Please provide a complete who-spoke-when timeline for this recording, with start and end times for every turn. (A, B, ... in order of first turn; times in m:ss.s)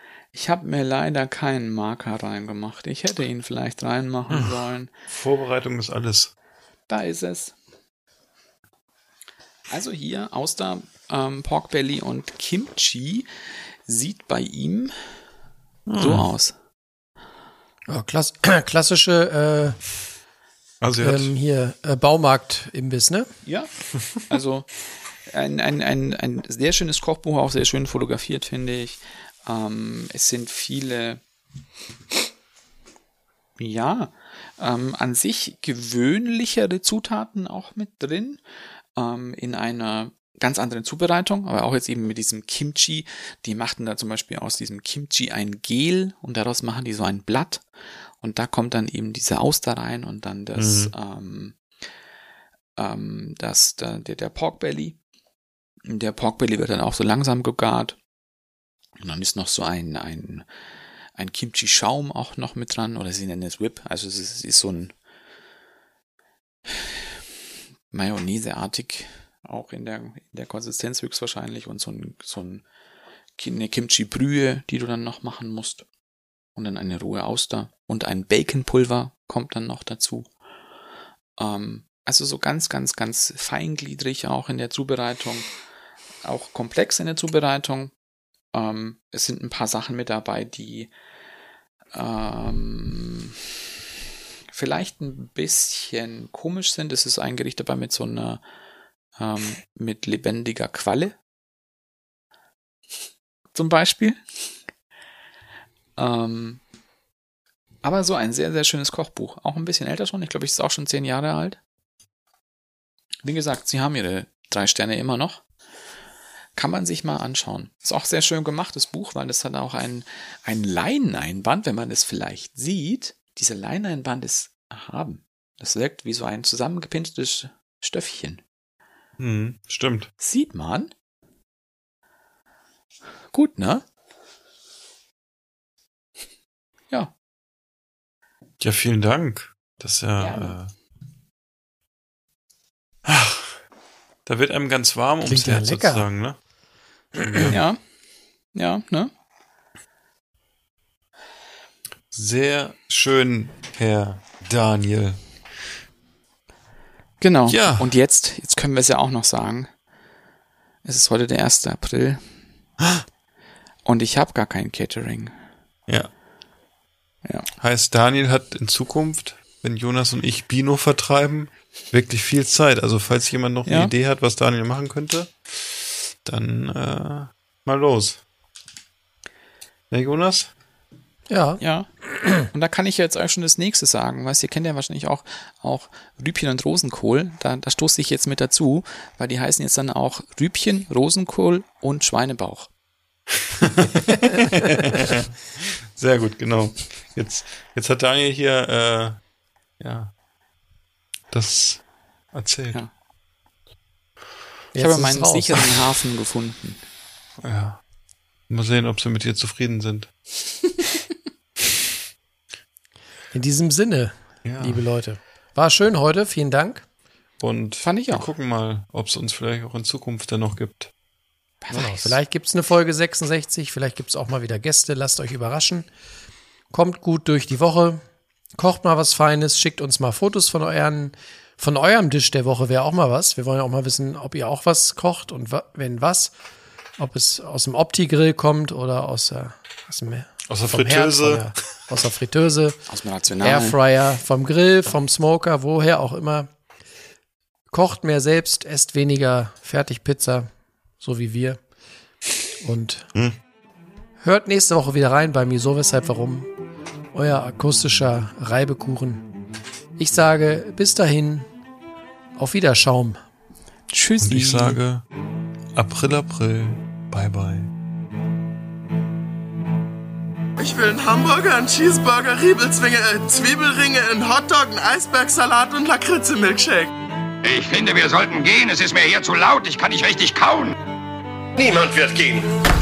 0:00.3-0:04.9 A
0:04.3-0:06.3 B
0:06.9-0:07.5 A
0:09.7-0:14.9 A
0:15.9-0:16.3 B
0:16.0-0:16.5 A
0:17.9-0:19.8 C
0:20.8-0:21.3 B
0:21.0-0:23.3 C
0:23.5-0:31.2 A
0:33.6-0:38.4 A
0:39.0-0:47.6 A
0:48.2-0:51.6 A
0:50.6-0:50.9 B
0:52.8-0:55.0 A
0:55.8-0:58.0 A
0:59.0-1:00.5 A
1:01.2-1:04.9 A
1:06.7-1:07.1 A
1:07.9-1:12.6 A
1:13.4-1:15.8 A
1:16.6-1:20.3 A
1:21.4-1:25.5 A
1:26.2-1:27.9 A
1:28.5-1:30.9 A
1:31.9-1:33.4 A
1:34.5-1:38.4 A
1:39.2-1:41.2 A
1:43.5-1:44.2 A
1:46.0-1:46.6 A
1:47.8-1:51.6 A
1:53.2-1:55.4 A
1:56.6-2:08.4 A
2:09.2-2:10.1 B
2:10.2-2:10.9 A
2:13.3-2:13.8 A
2:18.6-2:20.7 B
2:20.2-2:20.6 A
2:23.0-2:23.6 B
2:24.3-2:26.4 B
2:25.2-2:26.0 C
2:27.2-2:27.6 B
2:27.5-2:27.8 A
2:28.5-2:29.1 A
2:32.1-2:35.2 B
2:37.2-2:39.7 A
2:37.5-2:37.9 B
2:40.8-2:42.3 A
2:43.8-2:45.4 A
2:47.6-2:58.2 B
2:53.7-2:53.9 A
2:59.9-3:00.5 B
3:01.3-3:01.6 C
3:01.6-3:12.7 A
3:13.5-3:19.2 B
3:19.8-3:20.1 B
3:21.3-3:21.8 B
3:22.3-3:22.8 B
3:24.8-3:25.6 C
3:24.8-3:26.8 A
3:27.4-3:27.8 B
3:28.5-3:30.1 B
3:33.3-3:36.9 C
3:34.4-3:34.8 B
3:37.4-3:40.9 B
3:37.8-3:38.3 A
3:41.6-3:42.2 A
3:41.7-3:45.9 C
3:46.7-3:48.0 C
3:48.6-3:56.3 C
3:57.0-4:02.8 C
4:00.5-4:01.6 B
4:02.9-4:03.8 A
4:03.4-4:06.5 C
4:07.7-4:10.5 C
4:11.0-4:11.6 C
4:12.6-4:13.1 C
4:14.2-4:16.5 C
4:17.1-4:19.2 C
4:20.0-4:21.5 C
4:22.4-4:23.2 C
4:23.9-4:24.8 A
4:24.2-4:25.0 B
4:25.8-4:27.7 B
4:30.6-4:36.9 D
4:37.4-4:40.8 E
4:41.6-4:42.5 E